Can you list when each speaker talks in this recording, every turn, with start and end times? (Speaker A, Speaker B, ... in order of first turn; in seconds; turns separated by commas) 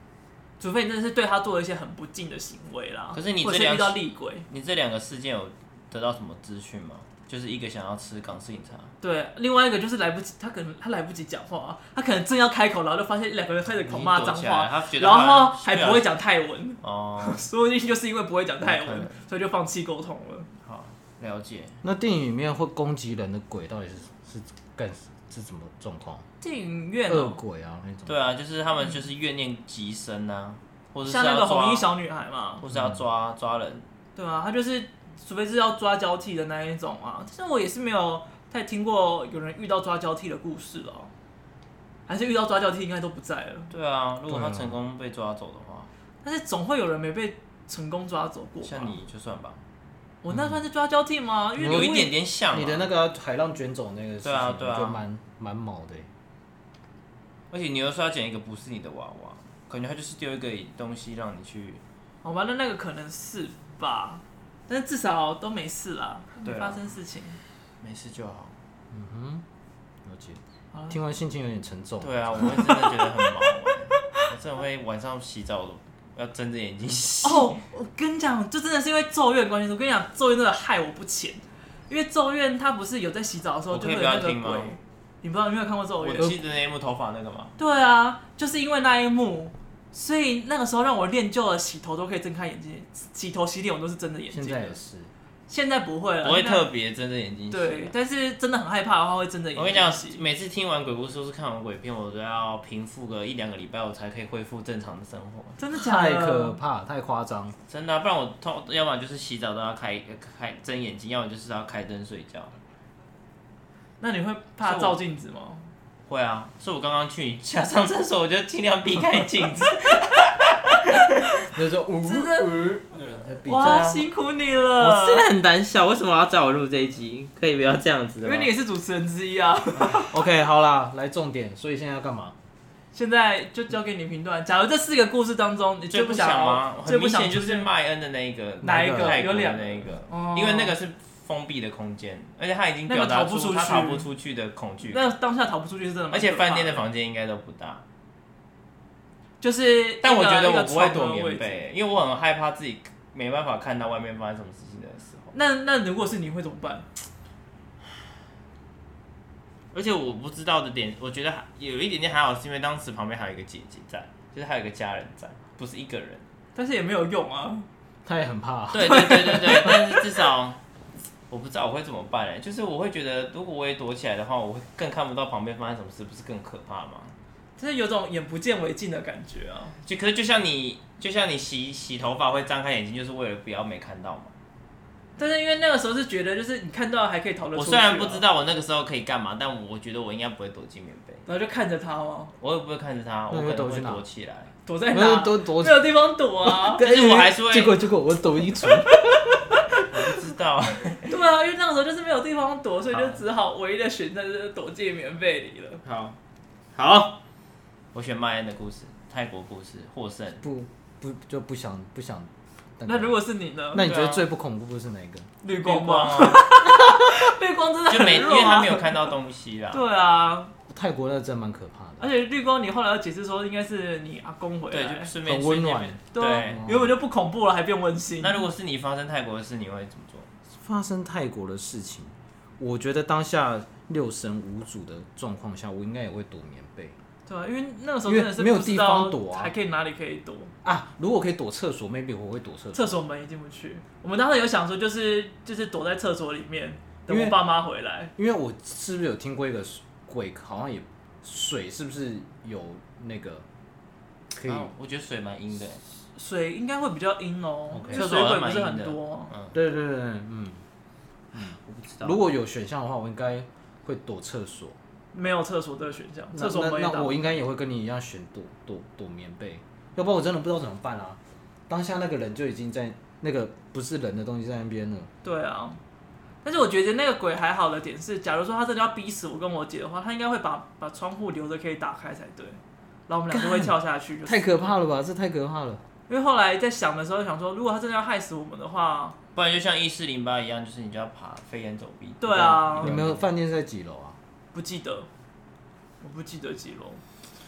Speaker A: 0.6-4.5, Speaker B: 3.1-8.9, Speaker A: 9.0-20.5, Speaker B: 13.8-16.1, Speaker B: 16.8-17.4, Speaker B: 18.6-19.1, Speaker B: 20.6-21.8, Speaker C: 21.8-26.3, Speaker A: 26.4-27.4, Speaker C: 27.1-28.3, Speaker B: 28.1-31.9, Speaker A: 31.1-32.6, Speaker B: 32.6-33.9, Speaker C: 32.7-33.0, Speaker A: 34.2-41.1, Speaker A: 42.1-43.7, Speaker B: 43.7-45.9, Speaker C: 44.3-44.8, Speaker A: 46.2-49.0, Speaker B: 48.6-49.6, Speaker A: 50.2-52.1, Speaker C: 50.3-50.6, Speaker B: 51.6-52.9, Speaker C: 51.6-51.9, Speaker C: 52.5-56.1, Speaker B: 54.2-55.0, Speaker B: 57.5-61.8, Speaker A: 62.2-67.4, Speaker B: 66.4-66.8, Speaker B: 67.8-68.5, Speaker C: 68.9-69.5, Speaker C: 70.0-72.5, Speaker B: 72.0-77.7, Speaker A: 77.2-86.4, Speaker B: 83.7-84.8, Speaker B: 86.0-87.5, Speaker A: 87.6-94.7, Speaker C: 94.3-95.1, Speaker A: 95.5-96.7, Speaker B: 96.2-97.9, Speaker A: 97.5-100.2, Speaker B: 99.5-105.6, Speaker A: 105.6-106.6, Speaker C: 105.7-107.6, Speaker B: 107.7-112.5, Speaker A: 114.0-115.7, Speaker B: 114.6-115.0, Speaker B: 116.1-121.0, Speaker C: 121.5-124.0, Speaker A: 122.0-122.7, Speaker A: 123.5-125.3, Speaker B: 123.5-124.1, Speaker B: 124.8-128.5, Speaker A: 128.2-130.1, Speaker C: 129.9-132.3, Speaker A: 132.9-137.7, Speaker B: 135.9-145.1, Speaker C: 138.6-139.3, Speaker A: 138.6-140.7, Speaker A: 142.9-144.1, Speaker A: 144.8-146.8, Speaker B: 146.1-147.8, Speaker A: 149.4-151.6, Speaker B: 150.0-155.3, Speaker A: 155.3-156.9, Speaker B: 159.7-166.3, Speaker A: 166.6-167.7, Speaker C: 168.1-169.7, Speaker B: 168.7-170.6, Speaker A: 168.8-170.0, Speaker B: 171.3-177.2, Speaker A: 177.6-179.8, Speaker B: 179.8-184.3, Speaker A: 185.2-188.2, Speaker B: 187.6-191.3, Speaker A: 191.3-192.3, Speaker B: 192.4-194.5, Speaker C: 193.3-194.0, Speaker A: 194.7-196.9, Speaker C: 194.9-199.4, Speaker B: 196.8-197.8, Speaker B: 199.9-201.1, Speaker A: 201.1-205.8, Speaker B: 202.9-203.2, Speaker B: 205.8-206.2, Speaker B: 206.8-207.2, Speaker B: 207.9-210.4, Speaker C: 210.4-213.2, Speaker A: 212.9-214.2, Speaker C: 213.7-215.3, Speaker A: 215.4-219.1, Speaker B: 215.6-216.5, Speaker B: 217.9-219.8, Speaker A: 219.7-220.5, Speaker C: 220.7-222.1, Speaker A: 222.0-225.1, Speaker B: 224.7-226.6, Speaker C: 225.2-226.9, Speaker A: 226.1-228.4, Speaker B: 228.2-230.3, Speaker C: 230.5-237.0, Speaker A: 237.3-240.5, Speaker C: 238.1-239.5, Speaker C: 240.6-243.0, Speaker A: 242.7-248.1, Speaker C: 247.1-247.4, Speaker C: 248.2-253.4, Speaker C: 254.3-254.7, Speaker B: 254.4-255.8, Speaker A: 256.2-259.3, Speaker C: 257.7-258.1, Speaker B: 257.9-259.5, Speaker C: 259.5-260.6, Speaker B: 261.4-262.2, Speaker C: 261.4-264.8, Speaker A: 265.1-267.2, Speaker C: 266.3-275.1, Speaker A: 275.2-275.8, Speaker A: 276.4-284.7, Speaker C: 283.3-283.8, Speaker C: 284.3-285.8, Speaker A: 286.1-289.2, Speaker B: 289.4-293.2, Speaker A: 292.2-292.9, Speaker C: 292.8-294.2, Speaker A: 294.5-295.1, Speaker A: 296.0-297.0